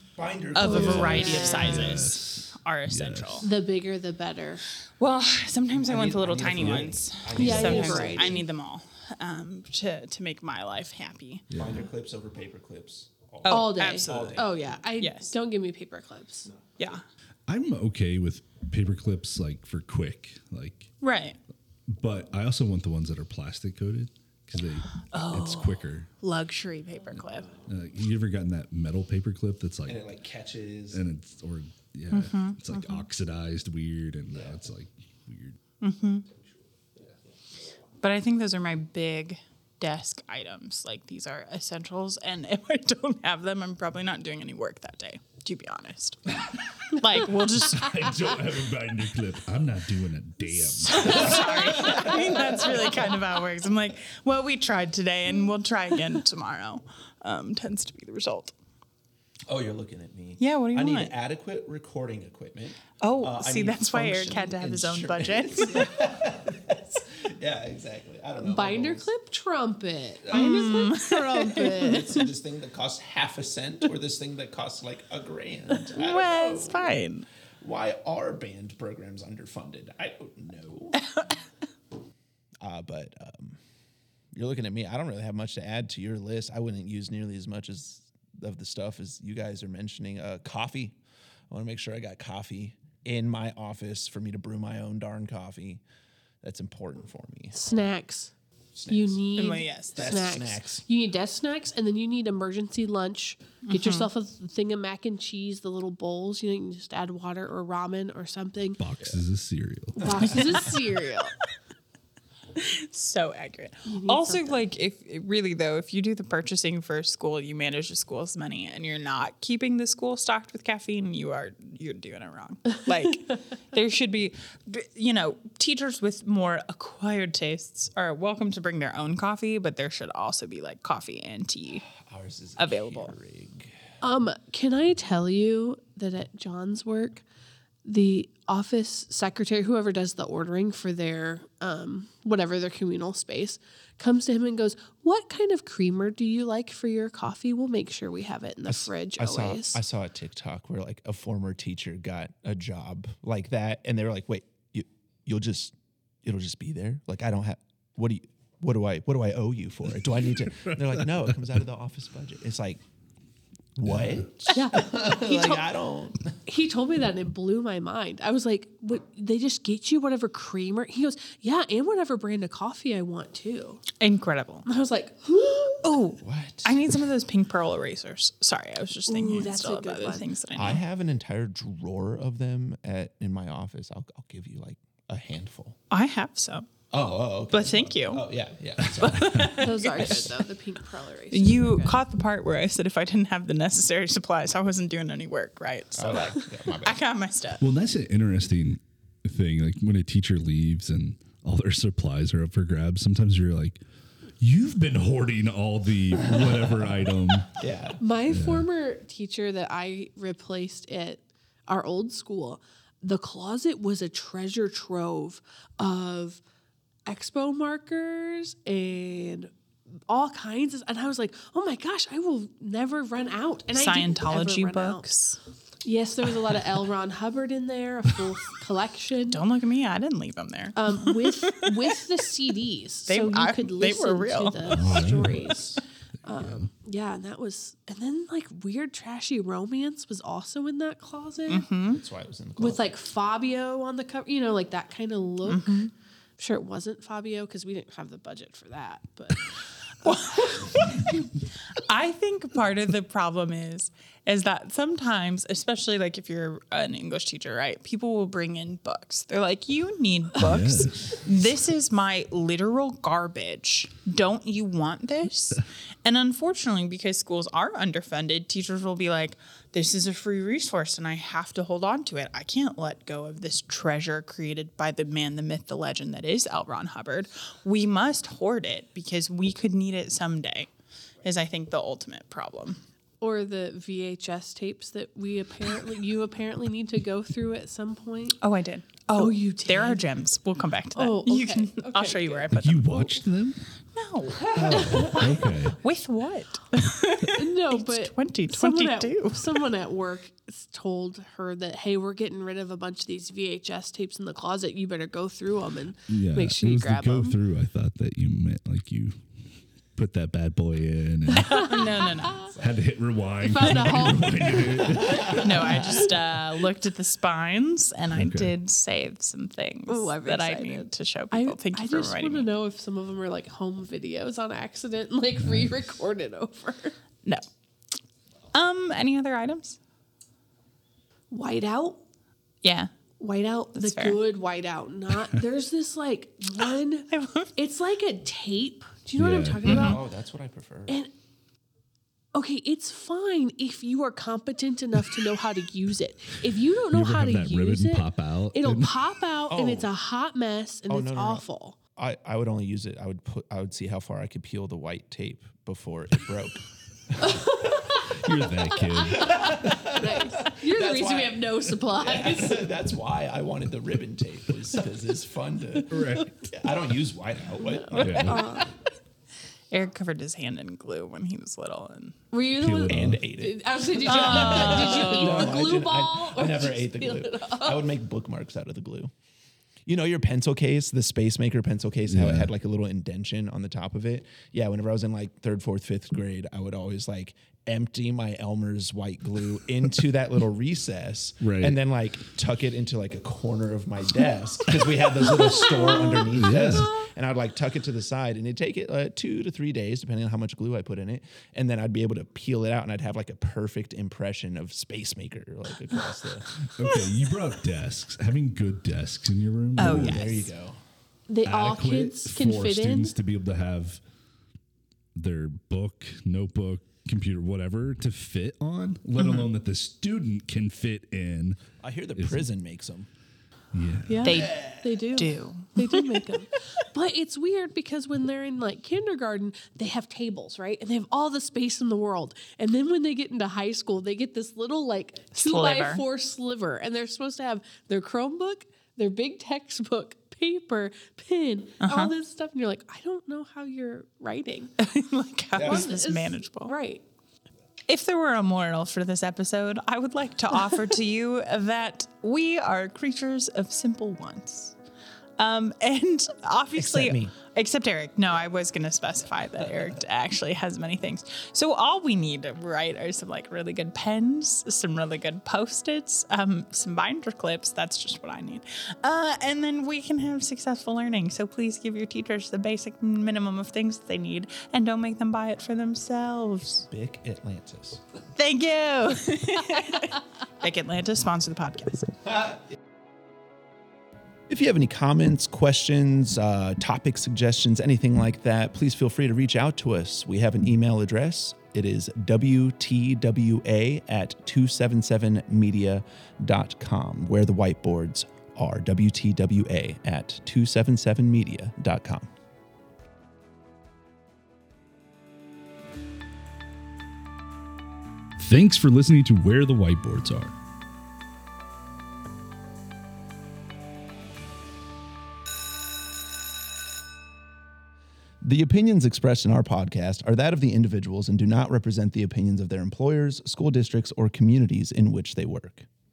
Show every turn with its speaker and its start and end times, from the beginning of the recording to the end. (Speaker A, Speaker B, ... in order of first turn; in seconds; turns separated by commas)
Speaker A: 0.1-1.9, Speaker B: 0.5-3.5, Speaker C: 0.6-1.8, Speaker D: 0.7-3.5, Speaker C: 3.4-4.6, Speaker B: 5.0-11.4, Speaker A: 5.7-8.4, Speaker C: 7.3-8.4, Speaker D: 7.4-7.8, Speaker D: 11.5-11.8, Speaker A: 11.5-14.6, Speaker B: 13.4-15.3, Speaker C: 13.5-16.5, Speaker D: 17.5-20.9, Speaker B: 21.0-21.4, Speaker D: 21.9-26.1, Speaker B: 25.1-27.5, Speaker D: 27.6-30.1, Speaker A: 29.9-31.0, Speaker D: 30.9-35.6, Speaker B: 32.1-33.1, Speaker B: 35.8-36.2, Speaker B: 38.0-48.1, Speaker D: 47.4-52.0, Speaker B: 50.4-58.5, Speaker A: 51.7-52.8, Speaker A: 59.5-69.1, Speaker B: 60.4-61.1, Speaker B: 63.0-66.1, Speaker C: 68.4-72.2, Speaker A: 70.2-70.8, Speaker B: 70.3-72.1, Speaker A: 71.7-76.9, Speaker B: 75.8-77.2, Speaker A: 77.6-81.0, Speaker B: 81.0-81.3, Speaker A: 82.6-83.6, Speaker A: 84.3-91.0, Speaker A: 91.5-95.8, Speaker A: 96.4-97.9, Speaker C: 97.5-98.3, Speaker A: 98.7-99.2, Speaker C: 98.9-108.8, Speaker B: 99.3-100.2, Speaker A: 99.9-100.8, Speaker B: 103.7-104.1, Speaker D: 108.8-110.2, Speaker C: 110.0-111.3, Speaker A: 110.0-110.3, Speaker B: 110.4-110.7, Speaker B: 112.5-131.9, Speaker C: 113.9-114.6, Speaker A: 131.9-133.7, Speaker B: 132.6-133.2, Speaker C: 134.0-137.2, Speaker C: 137.8-149.8, Speaker A: 148.7-162.8, Speaker D: 160.2-161.3, Speaker A: 163.8-166.3, Speaker D: 163.8-164.2, Speaker C: 164.5-165.7, Speaker C: 166.4-173.8, Speaker B: 174.0-174.7, Speaker C: 174.7-175.9, Speaker B: 175.8-180.8, Speaker A: 176.2-176.8, Speaker C: 179.1-180.2, Speaker A: 180.5-185.8, Speaker B: 185.9-186.7, Speaker A: 186.9-189.5, Speaker B: 187.5-188.2, Speaker D: 188.8-190.3, Speaker B: 189.0-190.3, Speaker C: 189.5-192.0, Speaker B: 191.3-197.6, Speaker A: 195.9-197.0, Speaker D: 197.6-203.8, Speaker D: 204.4-207.5, Speaker A: 206.2-206.6, Speaker A: 207.5-208.0, Speaker C: 208.0-216.4, Speaker D: 208.3-208.7, Speaker C: 217.1-219.5, Speaker C: 220.1-225.1, Speaker B: 223.7-225.4, Speaker C: 225.8-229.4, Speaker B: 229.3-232.0, Speaker C: 230.7-241.7, Speaker B: 233.1-235.0, Speaker D: 234.7-235.7, Speaker D: 236.3-236.7, Speaker B: 241.5-242.0, Speaker A: 241.9-242.9, Speaker C: 242.6-249.4, Speaker B: 245.4-245.9, Speaker B: 250.0-280.7, Speaker C: 250.0-250.9, Speaker D: 260.4-261.2, Speaker B: 281.2-282.8, Speaker C: 283.2-288.4, Speaker B: 288.4-293.2, Speaker C: 289.1-290.0, Speaker C: 290.9-292.5, Speaker D: 292.5-293.6, Speaker B: 293.9-299.7, Speaker D: 294.4-295.8, Speaker C: 294.7-295.3, Speaker C: 297.2-307.4, Speaker D: 306.1-309.2, Speaker D: 309.9-311.7, Speaker C: 311.3-312.5, Speaker B: 311.5-312.6, Speaker D: 312.6-315.9, Speaker C: 313.4-315.9, Speaker B: 313.7-314.0, Speaker A: 315.1-315.7, Speaker B: 315.2-322.5, Speaker D: 318.1-318.5, Speaker C: 319.9-326.9, Speaker D: 325.4-325.7, Speaker B: 328.5-329.8, Speaker C: 331.3-332.0, Speaker B: 332.6-332.9, Speaker C: 333.2-340.0, Speaker B: 333.8-334.2, Speaker B: 337.1-337.5, Speaker D: 339.1-340.0, Speaker B: 339.6-340.0, Speaker A: 339.7-341.0, Speaker C: 342.3-351.8, Speaker D: 346.9-349.0, Speaker A: 349.5-349.9, Speaker A: 350.9-351.4, Speaker A: 351.9-357.4, Speaker C: 357.2-357.7, Speaker D: 357.8-360.0, Speaker C: 358.9-362.7, Speaker A: 359.2-368.5, Speaker D: 365.9-366.5, Speaker C: 367.8-368.7, Speaker D: 367.9-368.6, Speaker B: 369.7-372.2, Speaker C: 372.3-377.8, Speaker D: 372.6-373.2, Speaker A: 372.9-379.1, Speaker B: 374.1-375.6, Speaker A: 379.9-406.5, Speaker D: 382.0-382.5, Speaker D: 391.4-391.8, Speaker D: 396.3-396.9, Speaker D: 406.7-410.2, Speaker B: 409.8-410.5, Speaker A: 409.8-410.8, Speaker C: 411.3-413.1, Speaker D: 411.4-414.0, Speaker D: 415.1-422.5, Speaker B: 419.2-419.5, Speaker A: 421.8-423.1, Speaker D: 423.7-424.4, Speaker C: 424.1-444.7, Speaker B: 424.2-426.2, Speaker A: 424.3-424.8, Speaker B: 435.3-436.0, Speaker B: 441.8-442.1, Speaker B: 444.8-446.7, Speaker A: 445.5-445.9, Speaker C: 445.6-447.0, Speaker B: 447.9-454.7, Speaker B: 455.4-476.9, Speaker A: 456.8-457.3, Speaker A: 476.9-478.0, Speaker B: 478.3-482.1, Speaker A: 484.5-502.3, Speaker D: 508.4-510.5, Speaker A: 518.4-525.9